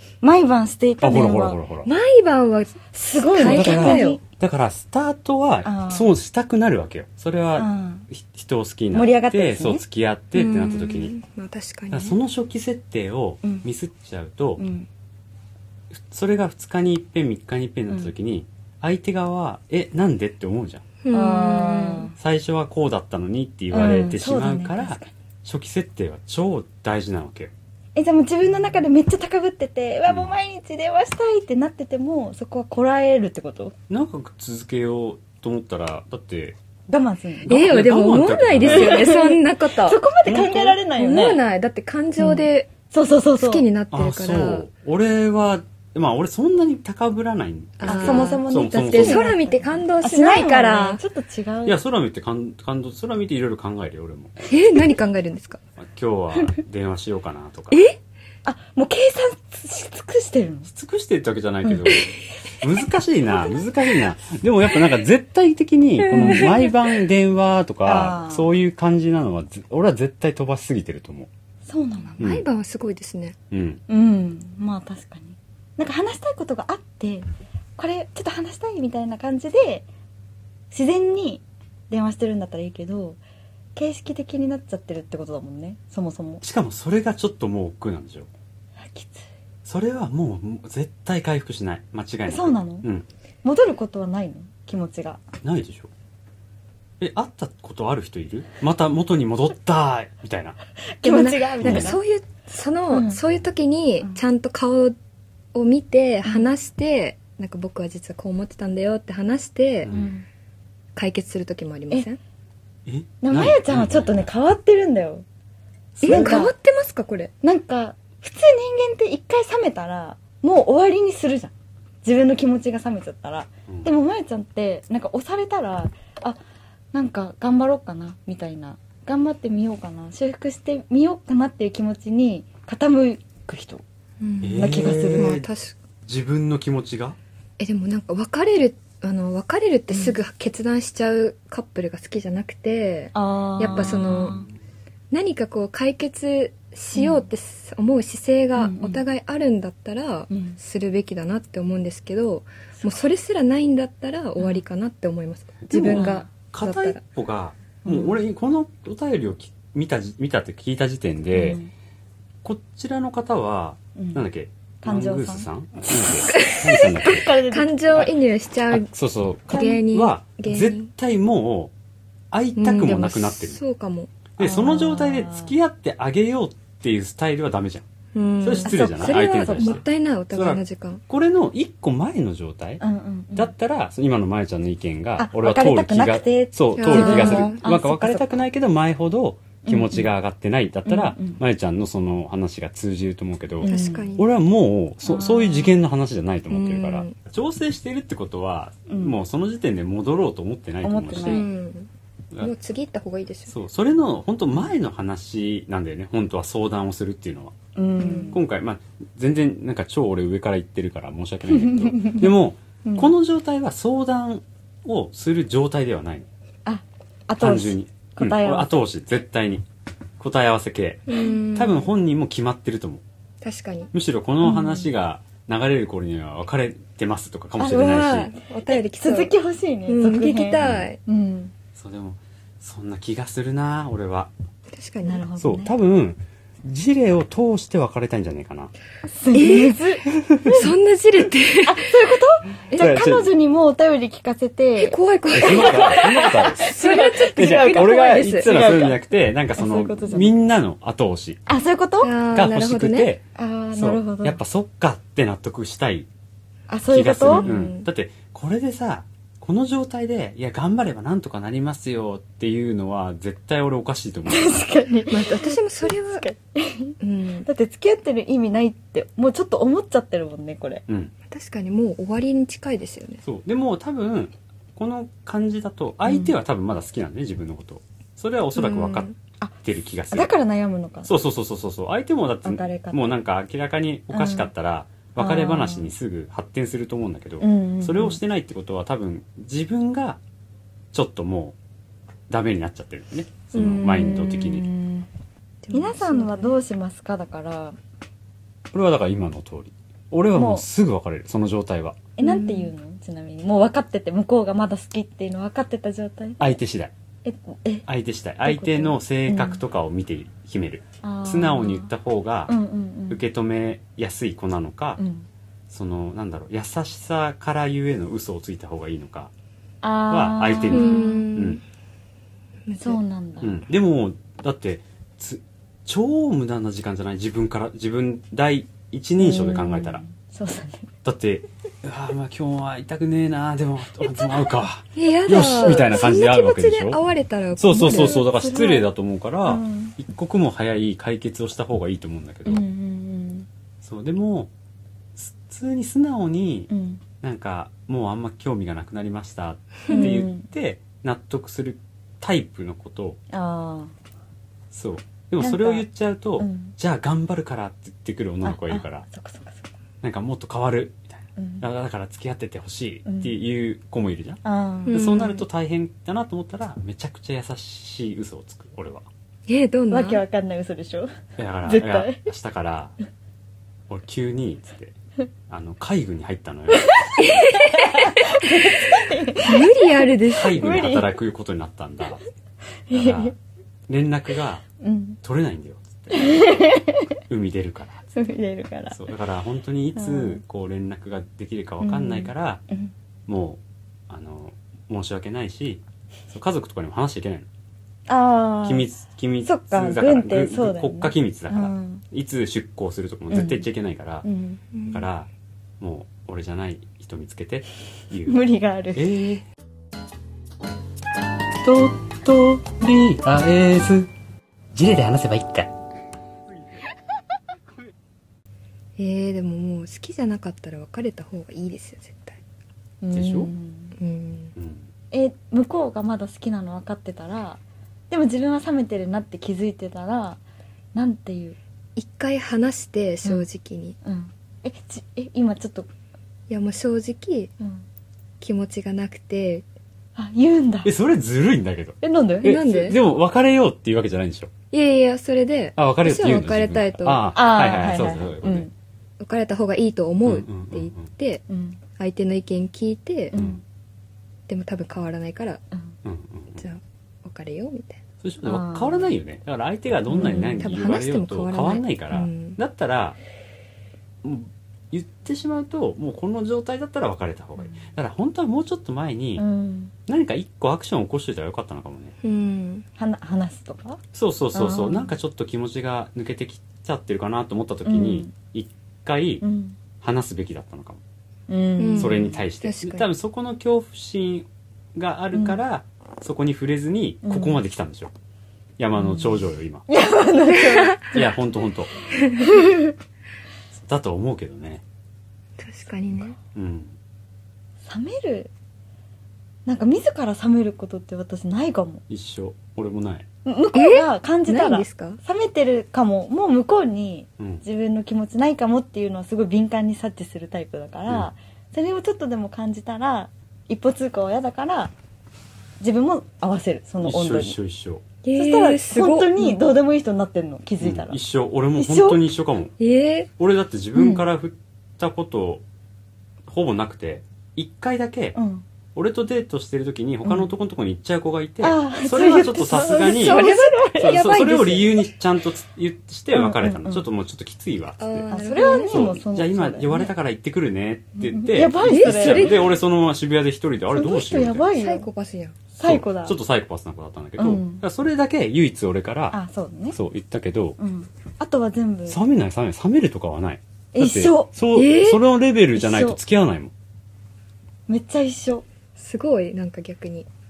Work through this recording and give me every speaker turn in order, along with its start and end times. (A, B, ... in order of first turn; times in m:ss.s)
0:00.2-0:01.6 A
0:01.0-0:01.9 B
0:01.8-0:04.2 C
0:02.9-0:04.2 A
0:03.4-0:11.2 B
0:05.6-0:06.1 A
0:07.6-0:08.1 A
0:08.9-0:09.8 A
0:10.4-0:12.2 C
0:11.9-0:14.6 B
0:14.6-0:14.9 A
0:15.9-0:20.8 B
0:21.0-0:22.1 C
0:21.1-0:22.1 A
0:22.2-0:27.5 B
0:23.7-0:25.2 A
0:28.0-0:33.8 A
0:30.1-0:30.4 B
0:33.9-0:36.6 B
0:36.9-0:37.6 A
0:37.5-0:42.7 C
0:37.5-0:39.1 B
0:38.6-0:41.4 A
0:40.3-0:40.6 B
0:42.2-0:43.7 A
0:43.4-0:44.7 C
0:43.9-0:49.4 B
0:47.8-0:51.0 C
0:47.9-0:51.8 A
0:51.7-0:54.4 B
0:54.4-0:55.6 C
0:55.8-0:57.8 B
0:57.7-0:58.0 C
0:58.4-1:00.7 A
1:00.7-1:11.3 B
1:06.1-1:06.6 C
1:07.8-1:08.5 A
1:11.7-1:12.2 A
1:12.2-1:13.4 C
1:12.2-1:12.4 B
1:13.5-1:13.8 B
1:13.9-1:19.9 A
1:20.7-1:23.2 A
1:23.8-1:26.4 A
1:26.4-1:28.3 B
1:28.8-1:29.3 A
1:29.6-1:33.1 B
1:32.3-1:32.9 A
1:33.4-1:35.2 A
1:35.4-1:35.9 B
1:37.0-1:40.6 B
1:41.0-1:42.0 A
1:41.0-1:45.0 C
1:41.6-1:42.0 B
1:42.9-1:43.2 A
1:45.5-1:49.9 C
1:49.8-1:50.1 B
1:49.9-1:50.2 A
1:51.0-1:52.2 C
1:52.9-1:54.3 B
1:53.2-1:55.2 A
1:56.0-1:56.4 B
1:56.0-1:57.3 C
1:56.0-1:56.5 A
1:57.4-2:01.5 A
2:02.0-2:06.4 A
2:06.9-2:13.8 A
2:14.2-2:15.8 C
2:14.4-2:15.5 B
2:14.6-2:15.4 A
2:16.0-2:17.2 B
2:17.6-2:24.4 C
2:23.1-2:24.5 A
2:23.7-2:24.1 B
2:25.1-2:37.0 C
2:26.9-2:27.2 A
2:28.6-2:29.0 A
2:30.3-2:30.6 A
2:35.7-2:41.6 B
2:35.7-2:36.3 A
2:37.8-2:38.2 A
2:41.3-2:41.7 A
2:42.4-2:47.3 B
2:44.0-2:44.3 A
2:44.8-2:48.1 A
2:46.3-2:48.9 C
2:48.7-2:51.7 B
2:49.5-2:50.9 C
2:52.3-2:53.6 B
2:52.6-2:54.1 C
2:54.4-2:57.9 B
2:54.4-2:55.5 A
2:58.1-3:01.0 C
2:58.4-3:02.8 B
2:58.6-2:59.8 A
3:02.8-3:03.5 A
3:03.3-3:21.5 B
3:05.2-3:08.3 A
3:06.8-3:07.6 C
3:09.6-3:10.1 A
3:10.9-3:11.4 A
3:13.6-3:14.1 A
3:13.7-3:14.3 C
3:15.0-3:15.8 A
3:16.5-3:17.2 C
3:18.9-3:19.2 A
3:20.8-3:21.5 A
3:21.2-3:23.6 C
3:23.5-3:27.6 B
3:27.8-3:28.4 A
3:28.3-3:36.3 B
3:31.5-3:32.3 A
3:32.8-3:33.1 A
3:36.7-3:38.9 A
3:37.4-3:39.6 B
3:40.2-3:43.0 B
3:41.1-3:41.9 C
3:43.4-3:43.9 C
3:43.9-3:48.3 B
3:44.4-3:44.8 A
3:47.6-3:51.5 A
3:47.8-3:49.3 C
3:49.9-3:51.0 C
3:50.6-3:50.9 B
3:51.8-3:54.3 B
3:54.7-3:55.2 C
3:55.0-3:55.7 A
3:55.4-3:58.7 B
3:59.1-4:00.7 A
3:59.3-3:59.8 C
4:00.1-4:00.5 B
4:00.5-4:01.9 C
4:01.6-4:09.0 A
4:02.7-4:03.3 B
4:04.8-4:08.5 C
4:05.3-4:11.4 B
4:09.6-4:10.4 A
4:11.5-4:12.2 A
4:12.0-4:13.1 C
4:12.3-4:13.2 B
4:13.4-4:14.4 A
4:13.8-4:16.1 B
4:16.7-4:17.5 A
4:16.9-4:24.6 B
4:17.2-4:17.9 C
4:24.3-4:30.8 A
4:25.1-4:26.3 C
4:27.0-4:27.5 C
4:30.9-4:31.1 B
4:31.3-4:33.2 C
4:33.2-4:39.1 B
4:36.1-4:36.3 A
4:38.6-4:39.1 C
4:39.6-4:40.4 B
4:40.1-4:41.1 A
4:41.0-4:50.2 B
4:42.4-4:43.0 A
4:44.1-4:44.5 A
4:45.2-4:45.9 A
4:47.4-4:48.2 A
4:50.9-4:51.6 B
4:52.3-4:54.7 B
4:53.5-4:55.1 A
4:53.6-4:54.0 C
4:55.6-4:56.6 C
4:55.7-4:57.8 A
4:58.7-5:02.0 B
5:00.3-5:00.6 A
5:02.2-5:06.6 A
5:02.2-5:02.7 C
5:06.4-5:06.9 B
5:07.2-5:07.9 A
5:07.9-5:12.5 B
5:08.4-5:09.6 A
5:11.0-5:11.9 A
5:12.5-5:13.2 A
5:13.1-5:15.0 B
5:15.0-5:15.3 A
5:15.7-5:19.3 B
5:19.8-5:21.3 A
5:20.1-5:21.6 B
5:20.7-5:21.6 C
5:22.7-5:23.0 C
5:22.8-5:23.6 A
5:23.4-5:30.0 B
5:29.2-5:30.9 A
5:31.0-5:37.0 B
5:34.0-5:34.4 A
5:35.0-5:38.2 C
5:37.6-5:42.6 B
5:37.8-5:38.9 A
5:39.5-5:40.0 A
5:42.5-5:43.5 A
5:43.8-5:44.5 B
5:45.2-5:46.7 B
5:46.7-5:47.0 A
5:47.2-5:53.2 B
5:49.9-5:50.5 A
5:53.3-5:53.9 A
5:54.7-5:59.1 B
5:55.4-5:55.9 A
5:56.4-5:56.8 A
5:58.4-5:59.7 A
6:00.0-6:09.1 B
6:01.4-6:01.6 A
6:03.1-6:03.3 A
6:04.4-6:05.2 A
6:04.9-6:05.4 C
6:09.5-6:10.2 C
6:09.9-6:12.2 A
6:11.4-6:13.0 B
6:13.9-6:15.0 B
6:15.5-6:17.4 B
6:16.7-6:21.2 A
6:17.2-6:18.0 C
6:19.4-6:20.7 C
6:20.3-6:22.2 B
6:22.9-6:23.3 A
6:22.9-6:23.3 B
6:23.9-6:24.6 B
6:24.8-6:25.2 A
6:25.2-6:26.6 B
6:26.1-6:27.2 A
6:27.3-6:28.0 B
6:28.1-6:29.0 A
6:28.9-6:32.6 B
6:30.0-6:30.4 A
6:31.8-6:32.9 A
6:33.3-6:37.5 B
6:38.1-6:38.9 A
6:38.6-6:44.2 B
6:39.4-6:42.0 A
6:43.3-6:43.7 A
6:44.2-6:44.6 A
6:44.7-6:45.0 C
6:44.9-6:45.3 B
6:45.8-6:48.4 B
6:48.3-6:49.1 A
6:49.0-6:49.4 B
6:51.6-6:54.1 B
6:54.7-6:55.7 B
6:59.0-7:02.4 C
7:03.0-7:04.0 A
7:03.1-7:03.5 B
7:04.0-7:04.5 C
7:04.6-7:04.8 B
7:05.1-7:10.4 A
7:11.0-7:11.6 A
7:12.0-7:14.0 C
7:14.0-7:15.9 A
7:16.5-7:17.5 C
7:17.6-7:17.8 A
7:18.4-7:19.6 C
7:20.2-7:20.9 A
7:20.8-7:24.5 B
7:22.0-7:22.7 A
7:22.4-7:23.0 C
7:24.7-7:27.2 C
7:25.8-7:28.7 B
7:27.3-7:28.7 A
7:29.2-7:31.4 C
7:30.2-7:31.1 B
7:31.5-7:31.8 A
7:32.0-7:33.4 C
7:33.3-7:33.6 A
7:33.4-7:33.6 B
7:34.5-7:35.6 C
7:36.0-7:36.6 B
7:36.6-7:38.0 C
7:38.2-7:43.2 B
7:38.4-7:39.1 A
7:40.1-7:40.8 A
7:40.6-7:42.6 C
7:44.2-7:49.4 B
7:49.4-7:49.9 A
7:50.1-7:52.2 B
7:52.2-7:52.9 C
7:53.0-7:54.0 A
7:54.1-7:59.4 B
7:54.5-7:55.1 A
7:57.8-7:58.3 A
7:59.4-7:59.8 A
8:00.0-8:01.0 B
8:01.5-8:02.4 A
8:01.8-8:03.1 C
8:02.0-8:08.1 B
8:07.2-8:07.6 A
8:08.8-8:09.9 B
8:09.9-8:11.2 A
8:10.5-8:11.1 C
8:11.1-8:11.9 B
8:12.2-8:12.9 A
8:12.2-8:12.6 C
8:13.7-8:14.8 B
8:15.6-8:16.4 C
8:16.5-8:17.0 B
8:17.8-8:18.5 A
8:19.7-8:22.0 A
8:22.1-8:23.3 B
8:23.4-8:34.9 A
8:23.7-8:25.2 C
8:27.4-8:27.6 B
8:35.8-8:37.6 A
8:37.0-8:38.0 B
8:38.2-8:39.6 C
8:38.3-8:41.2 A
8:40.8-8:42.8 B
8:41.8-8:42.2 A
8:42.8-8:43.3 C
8:43.4-8:45.6 B
8:44.0-8:44.2 A
8:46.5-8:48.4 B
8:48.4-8:48.6 A
8:49.0-9:04.7 B
8:51.6-8:54.3 A
8:53.0-8:55.1 C
8:56.3-8:57.1 A
8:58.0-8:59.1 C
8:58.3-9:00.1 A
9:01.2-9:02.6 A
9:01.8-9:02.7 C
9:03.9-9:05.1 A
9:04.7-9:05.6 C
9:05.7-9:06.4 A
9:05.8-9:09.4 B
9:07.4-9:07.8 A
9:09.3-9:10.0 A
9:09.9-9:10.8 B
9:10.8-9:12.2 A
9:12.1-9:16.7 B
9:13.9-9:14.5 A
9:14.7-9:15.2 C
9:15.8-9:16.2 A
9:17.9-9:18.6 A
9:19.0-9:20.3 C